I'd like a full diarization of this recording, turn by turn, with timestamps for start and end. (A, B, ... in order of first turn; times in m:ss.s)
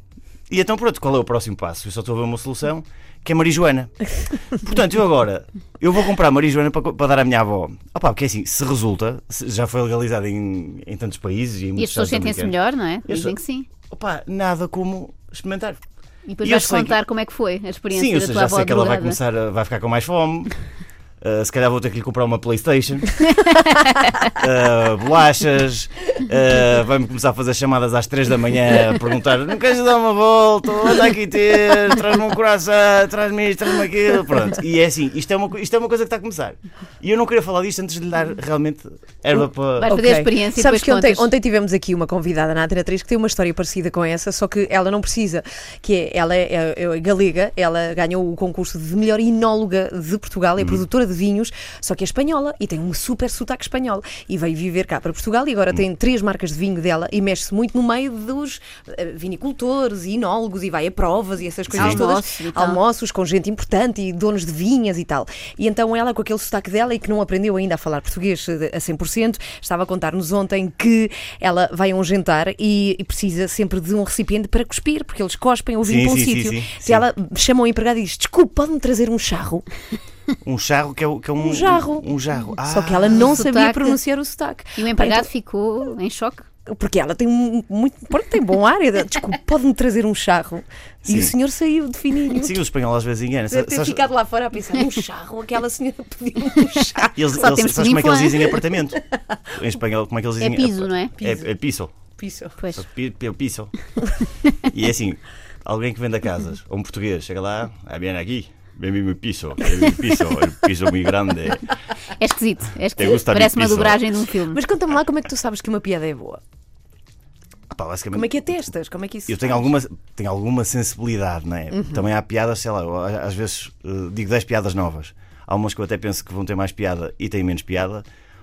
0:00.5-0:13.4 A
0:11.8-0:13.7 B
0:13.9-0:15.8 A
0:16.3-0:19.2 B
0:16.4-0:17.0 A
0:17.9-0:20.5 A
0:21.2-0:23.2 A
0:23.3-0:24.1 B
0:24.3-0:40.0 A
0:39.8-0:41.3 B
0:39.9-1:19.6 C
1:01.7-1:02.0 A
1:01.8-1:02.8 B
1:15.8-1:17.0 A
1:20.4-1:23.3 A
1:21.4-1:25.3 C
1:23.1-1:24.0 B
1:24.8-1:26.5 B
1:26.7-1:32.6 C
1:31.0-1:31.3 A
1:32.4-1:34.1 A
1:33.5-1:37.2 C
1:37.2-1:41.9 A
1:37.4-1:38.6 B
1:40.4-1:41.1 B
1:41.2-1:41.5 C
1:42.2-1:42.6 C
1:42.6-1:42.9 B
1:42.7-1:43.8 A
1:44.6-1:51.7 A
1:52.2-1:54.6 B
1:53.0-1:54.0 A
1:54.5-1:56.4 C
1:57.7-1:58.7 A
1:58.1-1:59.7 C
1:59.3-2:08.1 A
2:01.7-2:02.0 C